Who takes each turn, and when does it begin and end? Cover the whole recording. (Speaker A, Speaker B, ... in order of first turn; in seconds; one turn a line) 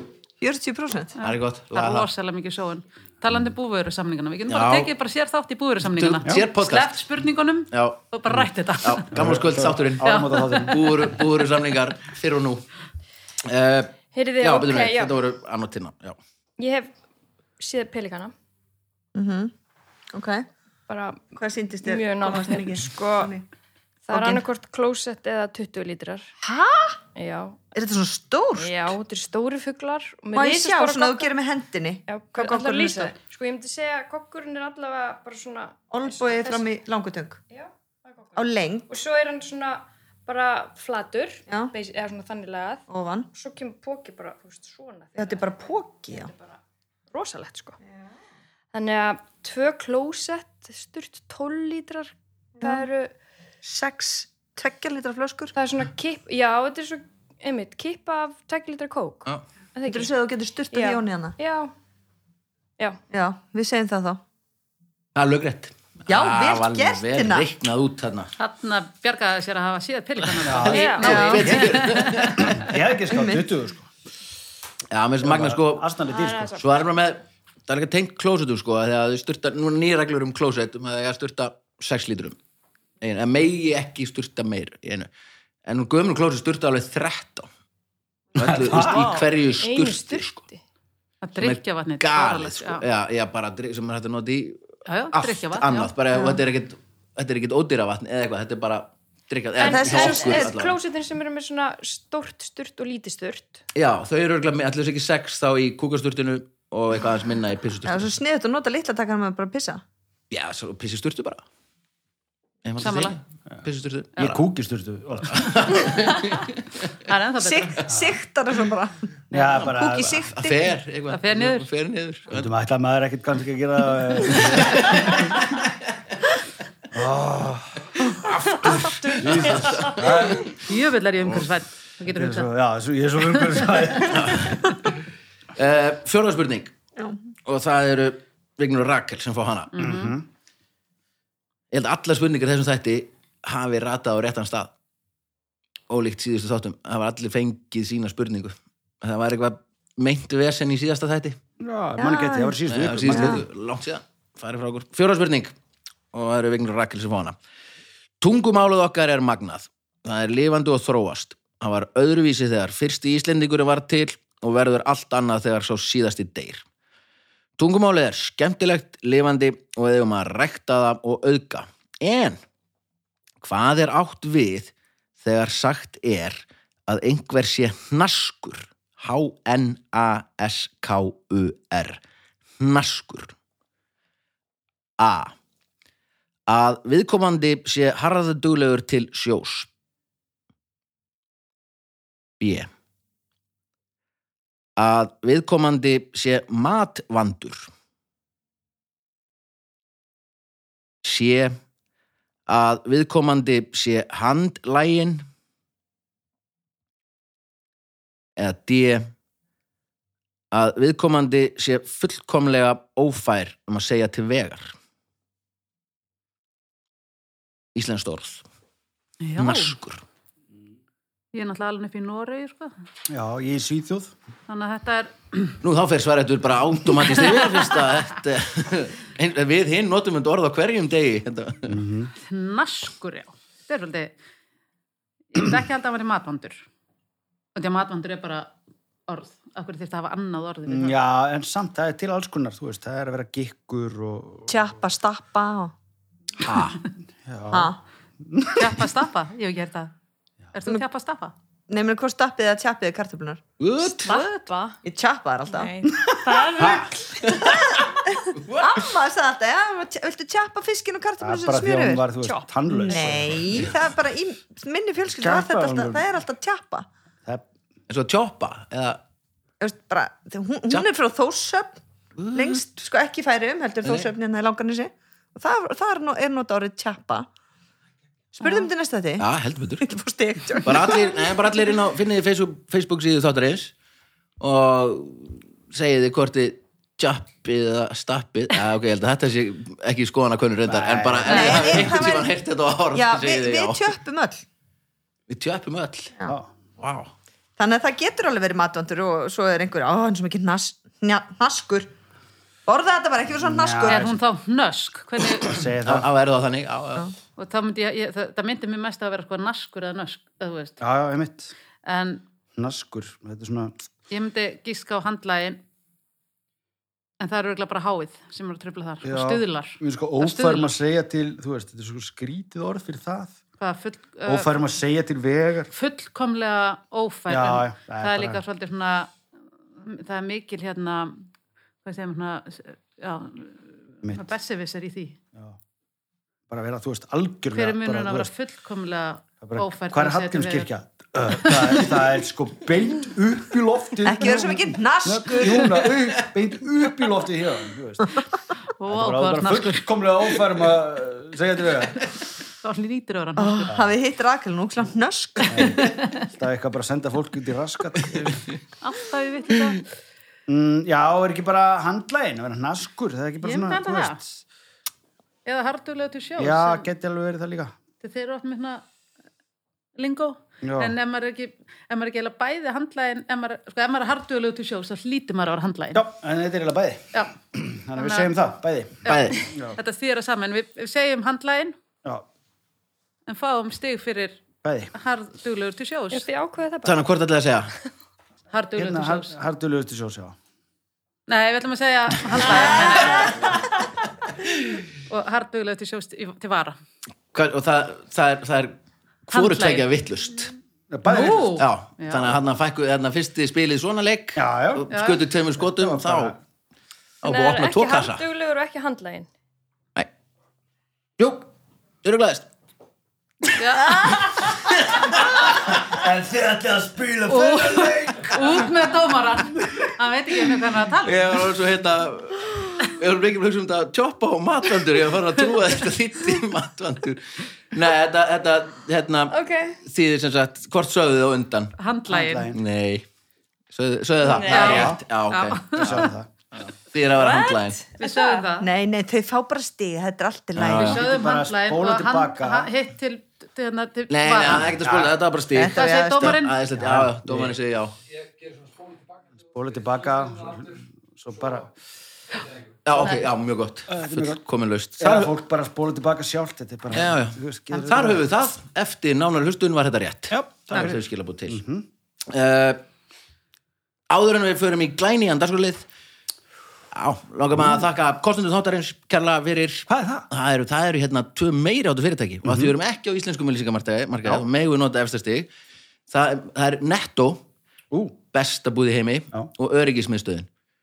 Speaker A: 0.4-1.1
Speaker B: 1.2-2.1
Speaker C: 1.2-9.1
Speaker B: 4.5-4.9
Speaker B: 5.8-7.0
Speaker B: 7.7-8.1
Speaker B: 8.8-12.6
Speaker D: 9.1-10.9
Speaker C: 10.0-10.9
Speaker B: 13.4-16.2
Speaker E: 14.1-15.2
Speaker E: 16.6-16.9
Speaker E: 17.6-18.3
Speaker A: 19.1-19.5
Speaker A: 20.1-20.4
Speaker E: 20.9-23.3
Speaker A: 21.4-23.4
Speaker E: 24.1-26.3
Speaker A: 24.1-24.4
Speaker A: 26.4-27.0
Speaker E: 27.1-27.6
Speaker A: 27.7-28.9
Speaker E: 28.6-31.3
Speaker A: 30.3-33.1
Speaker E: 32.1-36.7
Speaker A: 35.9-37.4
Speaker E: 37.5-45.4
Speaker A: 38.4-38.9
Speaker A: 42.9-43.3
Speaker A: 45.2-46.3
Speaker E: 47.1-47.8
Speaker E: 48.7-53.1
Speaker A: 52.6-52.8
Speaker A: 53.6-55.5
Speaker E: 55.5-60.1
Speaker A: 59.9-61.4
Speaker E: 60.7-61.7
Speaker A: 63.1-64.2
Speaker B: 65.1-68.3
Speaker A: 66.1-67.5
Speaker C: 68.4-72.5
Speaker B: 70.4-72.7
Speaker D: 70.4-73.9
Speaker E: 70.7-71.4
Speaker A: 71.0-71.5
Speaker A: 73.1-73.5
Speaker B: 74.9-75.9
Speaker D: 75.2-76.6
Speaker E: 76.1-76.7
Speaker B: 76.5-82.4
Speaker B: 83.0-85.1
Speaker B: 85.7-87.5
Speaker B: 88.3-90.4
Speaker D: 88.4-89.1
Speaker E: 88.8-90.6
Speaker C: 91.2-92.8
Speaker B: 91.3-100.8
Speaker C: 94.9-95.9
Speaker E: 99.6-103.6
Speaker A: 99.6-100.5
Speaker B: 103.7-108.1
Speaker A: 107.8-109.8
Speaker B: 110.3-111.4
Speaker B: 112.6-114.4
Speaker C: 112.8-113.2
Speaker D: 114.2-115.8
Speaker B: 115.3-116.9
Speaker C: 117.1-117.8
Speaker A: 117.4-120.7
Speaker D: 117.9-118.1
Speaker D: 119.3-120.2
Speaker B: 119.9-122.5
Speaker C: 121.1-121.7
Speaker D: 122.3-125.3
Speaker B: 124.3-125.7
Speaker D: 126.9-128.1
Speaker B: 128.0-130.5
Speaker D: 129.2-130.5
Speaker C: 130.5-132.5
Speaker D: 132.1-134.6
Speaker C: 133.6-133.8
Speaker B: 134.1-134.6
Speaker B: 135.6-136.7
Speaker B: 137.4-139.8
Speaker C: 139.7-140.2
Speaker D: 139.8-140.2
Speaker B: 141.7-144.7
Speaker B: 145.9-151.4
Speaker D: 151.6-153.4
Speaker A: 152.0-153.4
Speaker B: 152.7-155.5
Speaker B: 156.1-157.3
Speaker B: 158.2-166.7
Speaker B: 167.6-172.4
Speaker B: 173.4-182.0
Speaker B: 182.6-183.3
Speaker B: 185.0-185.3
Speaker B: 186.5-189.7
Speaker B: 192.4-192.7
Speaker B: 194.8-197.7
Speaker B: 201.0-201.6
Speaker B: 202.5-205.2
Speaker B: 208.4-209.1
Speaker B: 210.5-214.8
Speaker B: 217.7-218.4
Speaker C: 219.2-219.7
Speaker B: 219.4-220.0
Speaker C: 221.3-222.7
Speaker D: 223.1-224.1
Speaker C: 224.5-225.6
Speaker B: 225.6-231.8
Speaker C: 227.2-227.7
Speaker D: 231.7-232.1
Speaker C: 232.2-234.1
Speaker C: 235.3-236.6
Speaker C: 237.6-238.5
Speaker C: 239.1-241.0
Speaker D: 240.7-244.6
Speaker A: 244.5-245.7
Speaker B: 246.4-246.8
Speaker D: 247.2-247.7
Speaker A: 247.5-247.8
Speaker D: 248.2-248.8
Speaker C: 248.5-249.9
Speaker C: 250.5-251.3
Speaker A: 251.7-253.4
Speaker B: 253.6-254.2
Speaker E: 253.8-254.8
Speaker A: 254.8-255.7
Speaker E: 255.5-257.5
Speaker D: 256.1-256.8
Speaker B: 257.2-258.8
Speaker A: 257.4-262.1
Speaker D: 261.2-263.7
Speaker E: 262.2-263.0
Speaker A: 262.8-266.9
Speaker D: 265.2-266.0
Speaker B: 267.9-269.0
Speaker A: 269.6-271.8
Speaker B: 272.2-272.6
Speaker A: 272.3-277.3
Speaker B: 273.8-274.1
Speaker A: 278.3-279.3
Speaker B: 279.2-279.9
Speaker A: 279.8-281.3
Speaker B: 280.6-283.7
Speaker B: 284.4-293.9
Speaker D: 290.6-292.0
Speaker A: 291.2-292.3
Speaker A: 292.9-294.4
Speaker B: 295.3-296.1
Speaker B: 296.8-297.1
Speaker A: 297.6-301.9
Speaker A: 302.7-304.1
Speaker D: 303.4-304.2
Speaker C: 303.8-305.6
Speaker D: 305.4-306.1
Speaker B: 305.8-307.1
Speaker C: 307.4-310.8
Speaker D: 310.8-311.5
Speaker C: 311.8-312.2
Speaker D: 312.6-313.8
Speaker C: 314.1-315.6
Speaker C: 317.2-320.7
Speaker D: 319.0-323.4
Speaker C: 323.6-324.5
Speaker D: 324.2-325.7
Speaker C: 325.7-329.1
Speaker D: 327.3-328.4
Speaker C: 329.8-331.3
Speaker C: 331.8-335.2
Speaker D: 336.5-338.3
Speaker C: 337.5-340.7
Speaker D: 339.4-348.1
Speaker A: 344.0-345.9
Speaker C: 348.8-349.9
Speaker D: 348.9-352.1
Speaker C: 352.6-353.7
Speaker A: 353.4-355.9
Speaker D: 353.7-353.9
Speaker D: 355.5-358.4
Speaker C: 358.8-359.8
Speaker D: 360.5-364.4
Speaker C: 363.4-364.2
Speaker C: 365.4-366.9
Speaker D: 366.4-367.7
Speaker C: 368.0-368.8
Speaker C: 370.0-376.0
Speaker D: 370.6-370.9
Speaker D: 375.9-379.8
Speaker C: 377.9-378.3
Speaker C: 379.0-381.8
Speaker B: 379.1-379.4
Speaker C: 383.3-384.4
Speaker D: 384.6-384.9
Speaker C: 384.9-386.2
Speaker E: 386.1-387.0
Speaker B: 386.8-387.7
Speaker C: 388.5-389.4
Speaker D: 388.8-390.4
Speaker C: 391.3-393.5
Speaker A: 392.6-393.3
Speaker C: 395.1-396.8
Speaker B: 397.3-398.8
Speaker B: 399.3-400.5
Speaker C: 399.3-399.9
Speaker D: 400.9-401.6
Speaker C: 401.1-402.3
Speaker B: 401.5-406.4
Speaker D: 404.4-404.9
Speaker C: 404.9-405.2
Speaker D: 405.6-406.4
Speaker B: 407.2-408.2
Speaker E: 407.2-409.3
Speaker B: 411.2-411.5
Speaker B: 412.0-412.5
Speaker C: 413.6-414.3
Speaker B: 414.5-415.3
Speaker D: 415.1-418.7
Speaker C: 417.3-421.3
Speaker B: 421.0-431.7
Speaker E: 429.3-429.8
Speaker C: 431.8-432.5
Speaker D: 432.1-432.6
Speaker B: 432.5-433.0
Speaker B: 433.7-437.8
Speaker E: 434.2-434.9
Speaker C: 434.5-436.1
Speaker D: 434.6-435.0
Speaker D: 435.7-436.3
Speaker E: 437.1-438.5
Speaker C: 438.0-438.7
Speaker A: 438.6-441.0
Speaker B: 440.6-441.0
Speaker D: 440.6-442.7
Speaker C: 440.7-444.7
Speaker B: 444.1-447.9
Speaker D: 444.7-445.1
Speaker A: 445.5-446.4
Speaker C: 445.7-446.6
Speaker D: 446.7-447.5
Speaker D: 449.4-451.7
Speaker B: 452.8-455.3
Speaker D: 453.9-454.4
Speaker D: 455.0-458.2
Speaker B: 456.9-461.6
Speaker D: 460.3-461.9
Speaker B: 462.3-462.8
Speaker B: 464.1-465.9
Speaker B: 466.9-475.5
Speaker D: 467.6-467.8
Speaker D: 469.9-470.2
Speaker D: 472.4-472.7
Speaker B: 476.1-477.4
Speaker D: 477.9-478.1
Speaker B: 478.2-480.5